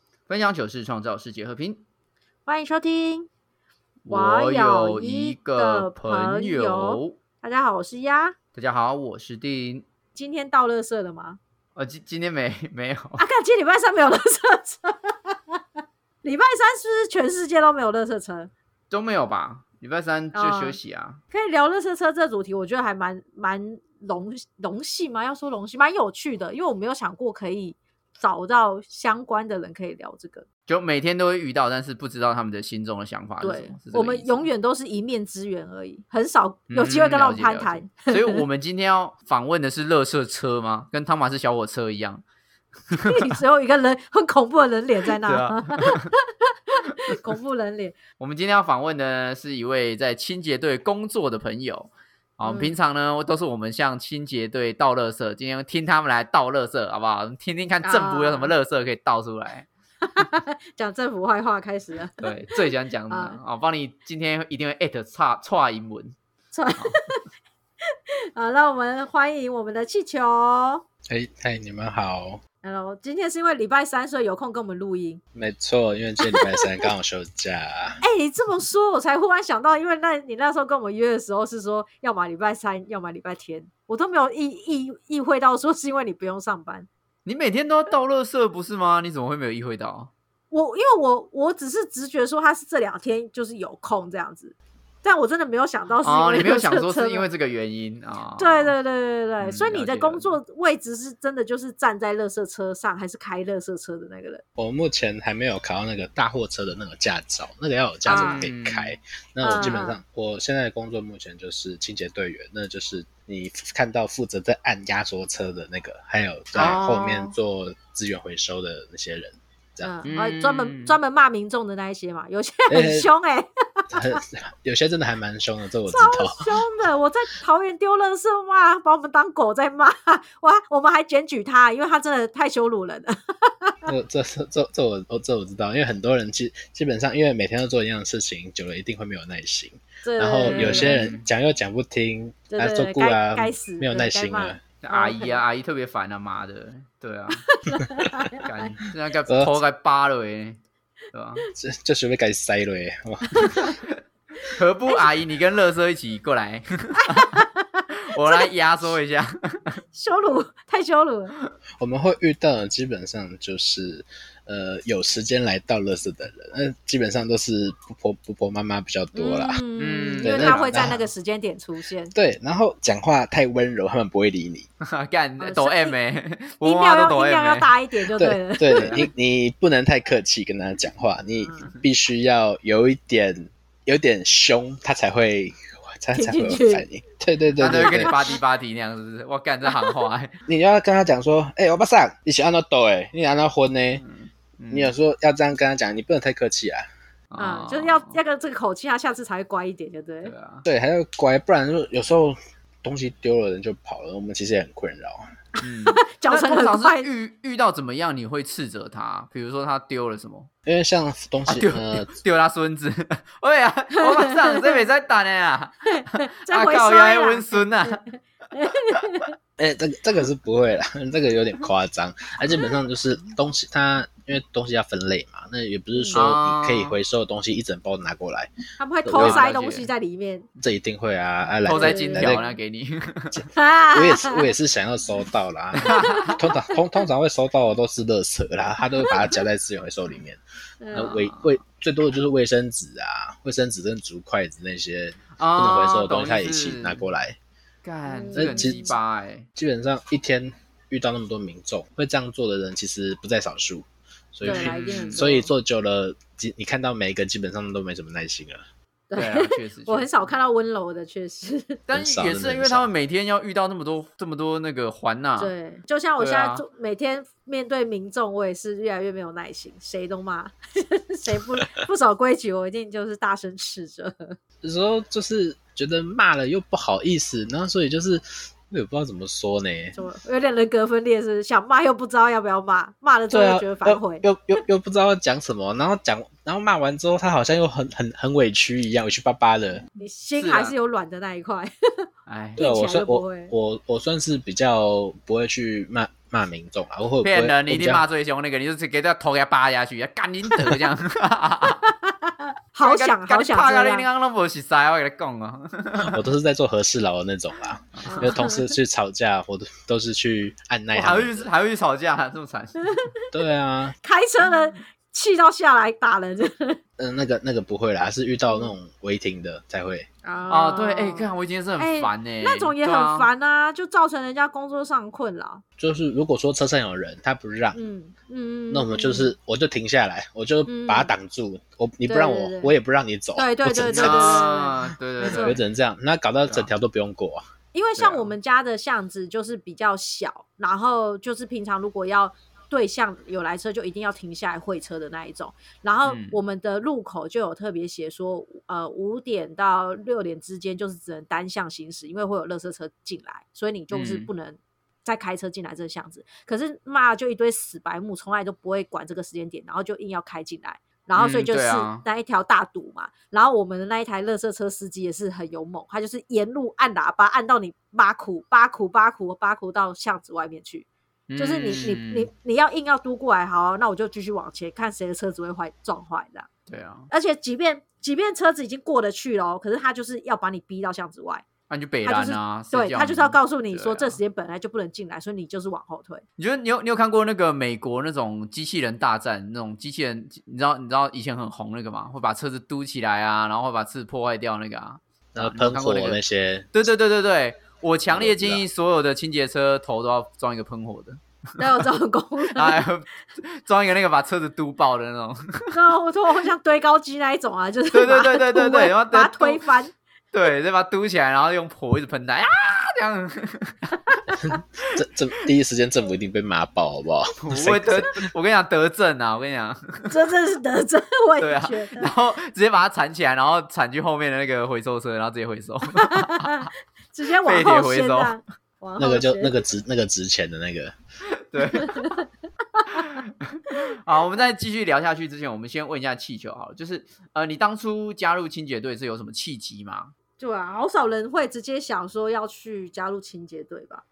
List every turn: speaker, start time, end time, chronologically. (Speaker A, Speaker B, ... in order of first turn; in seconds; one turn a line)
Speaker A: 0.3-1.8
Speaker B: 2.5-3.3
Speaker A: 4.1-7.2
Speaker B: 4.1-8.3
Speaker A: 8.6-9.8
Speaker B: 10.2-11.4
Speaker A: 11.8-13.2
Speaker B: 13.2-15.6
Speaker B: 16.2-18.5
Speaker A: 18.9-21.2
Speaker B: 20.3-20.8
Speaker B: 21.3-30.4
Speaker A: 30.7-34.5
Speaker B: 33.4-38.4
Speaker A: 36.7-42.2
Speaker A: 42.9-43.3
Speaker B: 43.0-48.0
Speaker A: 45.1-46.1
Speaker A: 46.9-47.2
Speaker A: 48.2-59.7
Speaker B: 52.5-52.8
Speaker B: 57.8-58.5
Speaker B: 60.0-62.5
Speaker A: 62.2-66.2
Speaker B: 63.1-63.4
Speaker B: 66.5-67.2
Speaker B: 68.3-70.8
Speaker C: 71.1-72.4
Speaker B: 72.6-75.2
Speaker C: 75.3-78.0
Speaker B: 76.2-76.8
Speaker B: 78.0-86.9
Speaker A: 87.3-90.1
Speaker B: 90.5-97.2
Speaker A: 96.0-98.7
Speaker B: 98.4-104.4
Speaker A: 99.4-100.4
Speaker C: 104.6-119.9
Speaker A: 108.1-109.0
Speaker B: 108.1-108.5
Speaker B: 109.4-110.0
Speaker A: 116.5-117.3
Speaker B: 119.8-124.2
Speaker A: 120.1-121.0
Speaker C: 122.7-123.1
Speaker C: 123.9-126.6
Speaker B: 125.9-133.9
Speaker C: 133.9-144.6
Speaker B: 140.0-141.1
Speaker A: 140.5-141.2
Speaker B: 142.5-145.4
Speaker A: 144.8-147.4
Speaker B: 147.3-148.5
Speaker A: 148.4-150.6
Speaker C: 149.3-149.6
Speaker A: 151.1-151.4
Speaker C: 151.6-153.7
Speaker B: 153.3-153.8
Speaker A: 153.9-157.3
Speaker B: 157.0-158.5
Speaker A: 158.1-159.8
Speaker B: 159.9-161.3
Speaker C: 161.8-169.6
Speaker B: 169.1-172.1
Speaker A: 169.8-170.9
Speaker C: 170.2-171.0
Speaker C: 172.1-174.7
Speaker A: 174.8-177.7
Speaker B: 175.4-176.0
Speaker B: 176.6-179.1
Speaker C: 178.2-188.2
Speaker A: 178.8-179.1
Speaker B: 181.4-181.8
Speaker B: 186.2-186.8
Speaker A: 187.6-190.3
Speaker B: 187.7-188.4
Speaker B: 189.7-189.9
Speaker C: 190.5-194.0
Speaker A: 194.0-194.9
Speaker C: 194.7-196.9
Speaker A: 197.3-198.2
Speaker B: 197.4-200.3
Speaker A: 200.2-200.7
Speaker C: 200.7-205.3
Speaker A: 205.6-210.5
Speaker B: 205.9-207.1
Speaker C: 210.7-212.1
Speaker A: 211.5-218.0
Speaker B: 214.0-214.8
Speaker B: 215.9-218.0
Speaker B: 218.5-219.3
Speaker C: 219.6-228.5
Speaker A: 226.1-226.9
Speaker B: 228.8-230.5
Speaker C: 229.1-229.4
Speaker A: 229.2-229.9
Speaker C: 230.6-232.4
Speaker A: 231.7-233.4
Speaker B: 231.7-232.6
Speaker C: 233.4-240.4
Speaker B: 233.5-234.4
Speaker A: 235.8-236.3
Speaker B: 235.9-236.4
Speaker B: 240.8-241.2
Speaker C: 240.9-247.4
Speaker A: 241.0-241.6
Speaker A: 245.4-247.0
Speaker A: 247.8-249.5
Speaker B: 248.1-249.0
Speaker C: 248.4-248.9
Speaker C: 249.6-258.7
Speaker B: 254.4-255.5
Speaker A: 254.4-255.3
Speaker B: 259.1-261.8
Speaker A: 259.2-260.3
Speaker A: 261.9-265.5
Speaker C: 261.9-262.9
Speaker B: 265.4-274.4
Speaker A: 266.2-266.6
Speaker C: 274.6-280.0
Speaker B: 279.9-284.2
Speaker C: 283.3-289.8
Speaker B: 290.0-291.7
Speaker A: 290.4-290.7
Speaker A: 292.3-292.6
Speaker C: 292.6-298.0
Speaker B: 292.6-293.5
Speaker A: 297.2-301.8
Speaker B: 301.8-304.1
Speaker A: 302.8-306.2
Speaker C: 306.0-311.5
Speaker A: 308.0-308.3
Speaker B: 308.1-308.7
Speaker A: 310.9-312.9
Speaker B: 312.9-313.2
Speaker C: 313.3-313.9
Speaker B: 314.0-316.8
Speaker C: 317.0-320.1
Speaker B: 320.2-325.6
Speaker A: 320.5-323.3
Speaker C: 325.8-327.8
Speaker B: 327.7-329.3
Speaker C: 328.7-334.5
Speaker B: 330.7-331.1
Speaker B: 332.1-332.7
Speaker B: 333.4-335.6
Speaker A: 333.9-335.6
Speaker C: 335.2-337.4
Speaker B: 337.7-376.5
Speaker A: 338.0-338.3
Speaker A: 346.1-346.4
Speaker A: 353.9-354.3
Speaker A: 361.2-362.1
Speaker A: 371.3-372.3
Speaker A: 376.7-377.1
Speaker B: 377.1-381.5
Speaker A: 381.7-384.2
Speaker B: 382.0-386.2
Speaker A: 386.4-396.2
Speaker C: 395.4-396.7
Speaker A: 396.7-401.8
Speaker C: 398.1-398.6
Speaker B: 401.6-402.9
Speaker A: 402.5-405.8
Speaker B: 405.7-409.9
Speaker A: 407.9-409.6
Speaker A: 410.3-413.9
Speaker C: 414.4-418.3
Speaker A: 417.4-420.1
Speaker B: 420.1-422.1
Speaker A: 421.4-426.7
Speaker B: 425.9-429.6
Speaker A: 427.4-428.4
Speaker C: 429.0-430.9
Speaker A: 431.3-432.1
Speaker B: 431.6-433.1
Speaker A: 432.9-440.1
Speaker B: 440.4-444.0